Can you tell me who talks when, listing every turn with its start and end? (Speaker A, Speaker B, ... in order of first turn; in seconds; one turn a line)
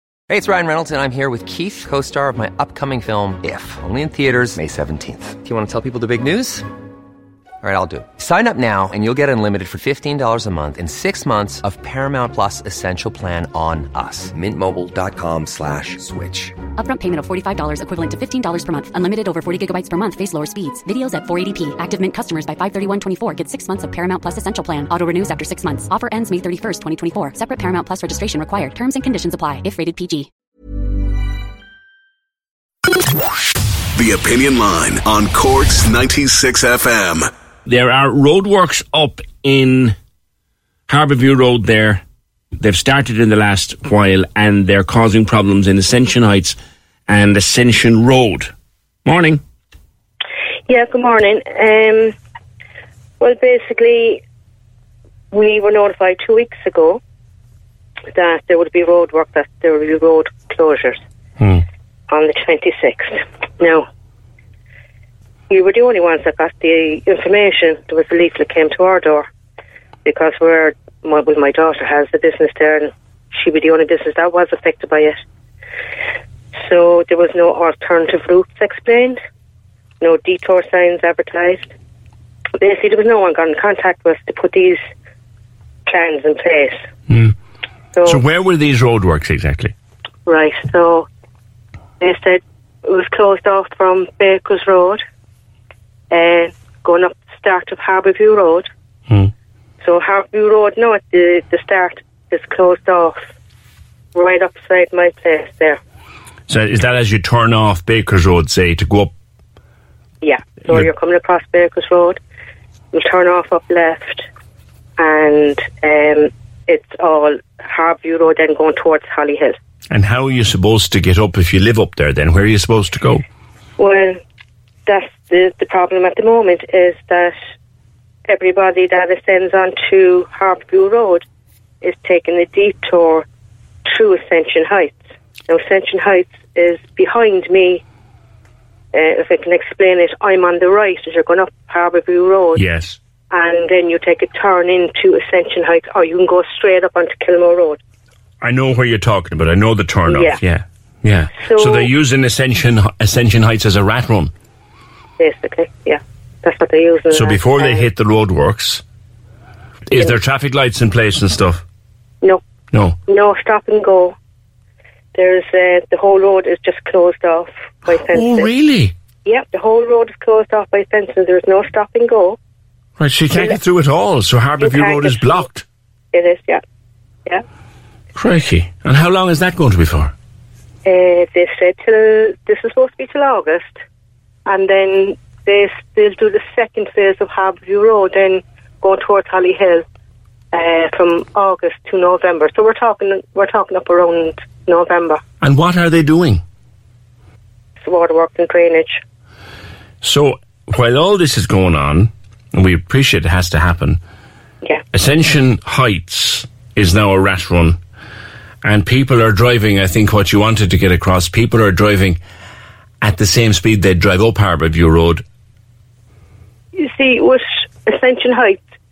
Speaker A: 0.3-6.7
Speaker A: 7.6-16.6
Speaker B: 16.8-30.3
Speaker C: 34.0-37.3
Speaker D: 37.7-40.0
Speaker D: 40.9-42.0
Speaker D: 42.6-46.6
Speaker D: 47.1-48.5
Speaker D: 49.1-49.4
Speaker E: 50.7-52.1
Speaker E: 53.2-54.2
Speaker E: 55.3-57.0
Speaker E: 58.1-61.0
Speaker E: 62.1-63.8
Speaker E: 65.5-69.3
Speaker E: 70.0-75.2
Speaker E: 76.6-79.2
Speaker E: 80.0-81.7
Speaker E: 82.6-84.8
Speaker E: 85.9-86.8
Speaker D: 87.1-87.3
Speaker E: 88.0-88.2
Speaker D: 88.0-89.7
Speaker E: 90.3-91.1
Speaker E: 92.0-95.0
Speaker E: 96.1-98.7
Speaker E: 99.8-103.2
Speaker E: 104.2-105.8
Speaker D: 106.5-109.1
Speaker E: 110.2-112.2
Speaker E: 112.9-114.3
Speaker E: 115.0-119.6
Speaker D: 119.9-123.2
Speaker E: 123.8-124.2
Speaker E: 124.9-127.3
Speaker E: 128.3-131.2
Speaker E: 131.8-133.3
Speaker E: 133.9-137.8
Speaker E: 138.9-142.6
Speaker D: 142.6-143.0
Speaker E: 143.3-147.8
Speaker D: 148.4-154.3
Speaker E: 150.1-150.4
Speaker E: 151.4-151.9
Speaker E: 155.2-157.8
Speaker D: 157.1-158.8
Speaker D: 159.9-161.6
Speaker D: 162.7-163.0
Speaker E: 163.1-164.2
Speaker E: 165.2-168.5
Speaker D: 168.1-168.9
Speaker E: 169.2-172.4
Speaker D: 173.0-175.7
Speaker E: 174.6-175.5
Speaker E: 176.1-176.6
Speaker D: 178.2-180.1
Speaker E: 180.8-183.8
Speaker E: 184.5-189.8
Speaker E: 190.5-195.2
Speaker D: 195.4-196.4
Speaker E: 197.8-199.0
Speaker D: 200.0-204.0
Speaker D: 204.9-207.8
Speaker D: 208.6-212.2
Speaker D: 213.0-215.2
Speaker E: 216.8-218.6